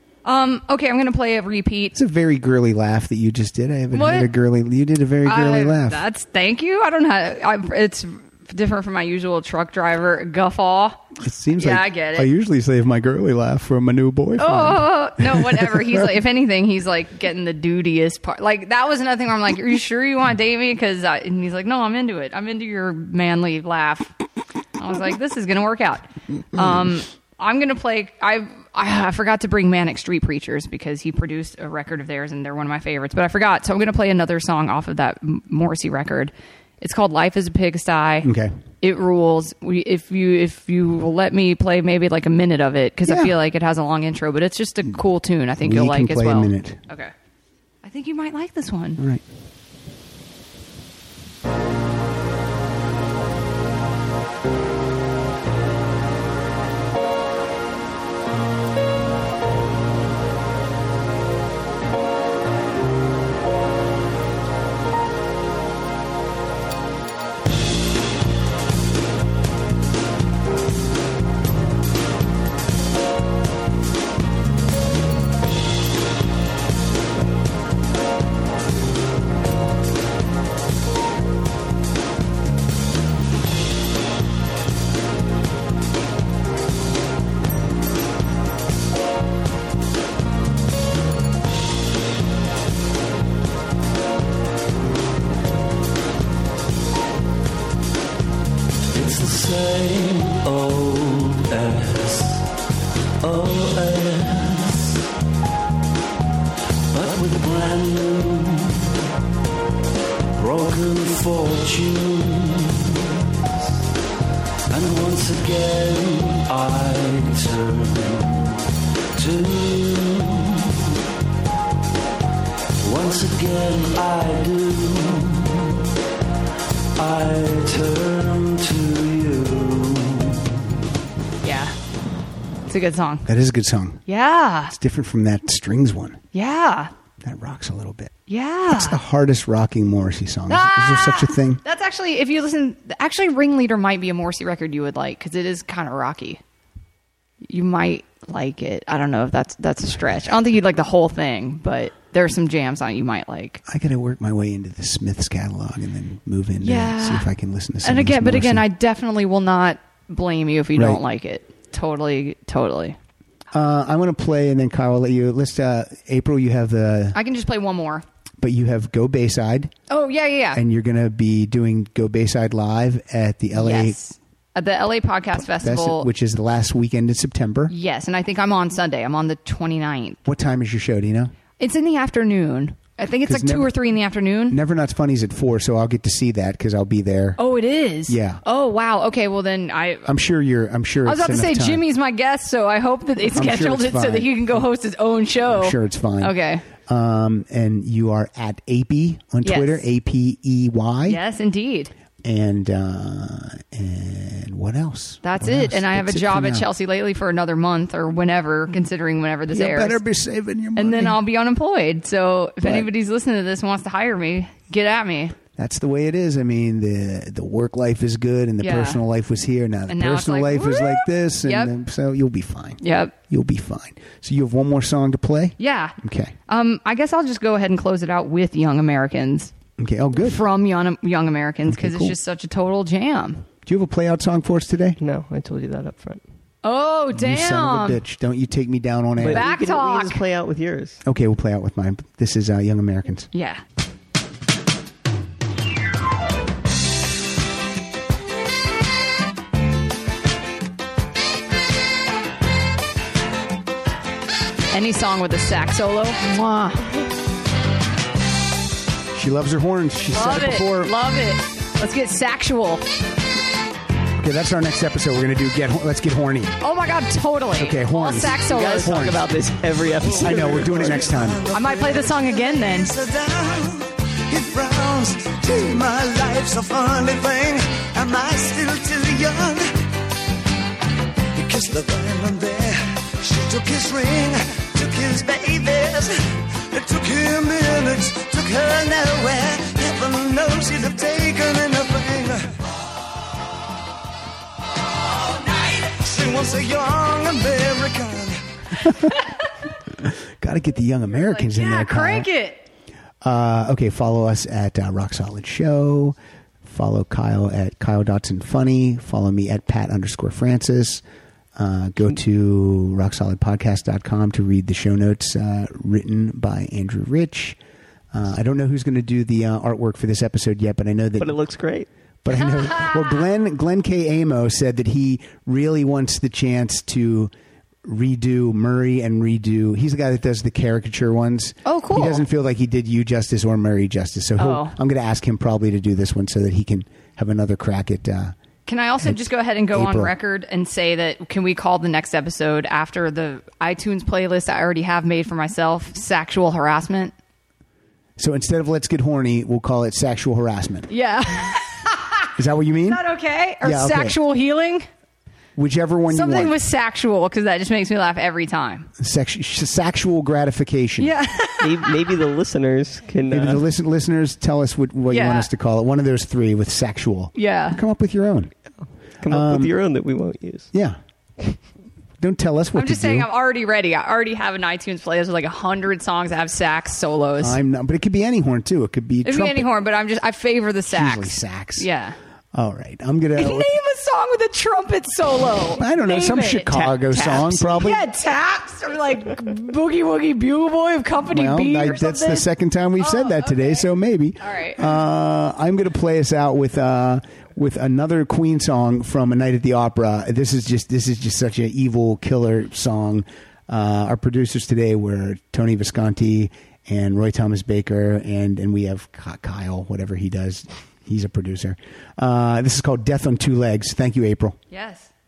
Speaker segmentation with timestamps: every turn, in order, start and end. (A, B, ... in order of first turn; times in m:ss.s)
0:00.2-0:02.0 A
0:01.9-0:06.1 B
0:03.9-0:04.3 A
0:05.2-0:12.3 A
0:11.2-0:16.2 B
0:14.4-0:24.1 A
0:24.8-0:38.3 A
0:38.2-0:38.5 B
0:38.8-0:47.1 A
0:43.1-0:43.3 B
0:45.6-0:46.8 B
0:47.8-0:49.0 A
0:49.0-0:49.2 B
1:38.9-1:42.5 C
1:43.2-1:45.0 C
1:46.9-1:48.9 C
1:50.4-1:53.8 C
1:54.7-1:58.6 C
1:59.2-2:00.9 C
2:02.8-2:05.8 C
2:07.0-2:10.5 C
2:11.4-2:11.8 A
2:12.7-2:13.3 A
2:13.3-2:14.0 B
2:14.1-2:14.8 A
2:14.7-2:16.2 B
2:16.3-2:16.9 A
2:17.2-2:18.1 B
2:18.3-2:19.0 A
2:18.7-2:21.6 B
2:20.5-2:26.4 A
2:27.4-2:33.6 A
2:33.7-2:38.7 B
2:36.6-2:37.3 A
2:37.8-2:43.0 A
2:40.8-2:41.0 B
2:43.5-2:47.2 B
2:47.2-2:48.0 A
2:48.4-2:49.7 B
2:49.9-2:50.6 A
2:50.5-2:54.0 B
2:53.5-2:56.1 A
2:55.3-2:57.7 B
2:57.7-3:00.2 A
3:00.2-3:01.3 B
3:01.6-3:04.6 A
3:03.3-3:03.8 B
3:04.5-3:07.4 B
3:07.4-3:10.1 A
3:08.1-3:08.4 B
3:10.1-3:11.8 B
3:11.0-3:16.7 A
3:13.3-3:14.6 B
3:15.5-3:21.2 B
3:19.4-3:19.9 A
3:21.0-3:21.9 A
3:22.2-3:26.7 B
3:25.2-3:30.0 A
3:29.5-3:31.2 B
3:30.8-3:35.4 A
3:32.6-3:32.9 B
3:35.6-3:46.3 B
3:38.6-3:39.0 A
3:39.9-3:41.7 A
3:42.8-3:43.1 A
3:45.6-3:46.0 A
3:46.5-3:49.5 A
3:49.8-3:50.4 B
3:50.2-3:53.4 A
3:51.7-3:52.2 B
3:53.6-3:55.0 B
3:55.0-3:56.2 D
3:56.6-3:58.0 A
3:57.2-3:59.4 B
3:59.2-4:01.0 D
3:59.3-4:00.2 A
4:01.0-4:03.3 B
4:03.3-4:03.6 A
4:14.7-4:16.9 A
4:19.1-4:20.9 B
4:20.1-4:22.8 A
4:24.2-4:26.6 B
4:26.6-4:29.0 A
4:27.5-4:29.2 B
4:28.4-4:31.1 D
4:30.0-4:31.4 B
4:30.3-4:39.7 E
4:31.5-4:32.9 A
4:41.4-4:52.5 E
4:55.4-4:58.4 E
4:58.8-4:59.1 B
4:59.9-5:02.3 B
5:01.2-5:02.6 A
5:03.2-5:11.0 B
5:11.6-5:17.6 B
5:18.1-5:21.4 B
5:21.2-5:21.9 D
5:22.2-5:27.3 B
5:27.8-5:38.4 B
5:31.6-5:32.2 A
5:34.4-5:34.8 A
5:38.7-5:47.2 A
5:39.0-5:40.2 B
5:48.2-5:50.9 B
5:50.9-5:52.3 A
5:52.4-5:53.0 B
5:52.9-5:54.9 A
5:53.6-5:54.2 B
5:55.6-5:56.6 B
5:56.1-5:58.9 A
5:59.0-6:01.1 B
6:01.0-6:01.8 A
6:01.6-6:03.6 D
6:03.3-6:08.5 B
6:05.1-6:05.5 A
6:07.4-6:07.8 A
6:09.2-6:10.7 D
6:09.3-6:09.8 B
6:10.7-6:11.0 B
6:12.2-6:13.3 B
6:12.8-6:17.6 A
6:17.4-6:19.7 B
6:19.2-6:22.2 A
6:20.9-6:21.9 B
6:22.5-6:23.7 B
6:23.4-6:32.4 A
6:25.8-6:28.1 B
6:31.3-6:54.6 B
6:33.0-6:33.9 A
6:34.4-6:35.0 A
6:54.7-6:55.1 A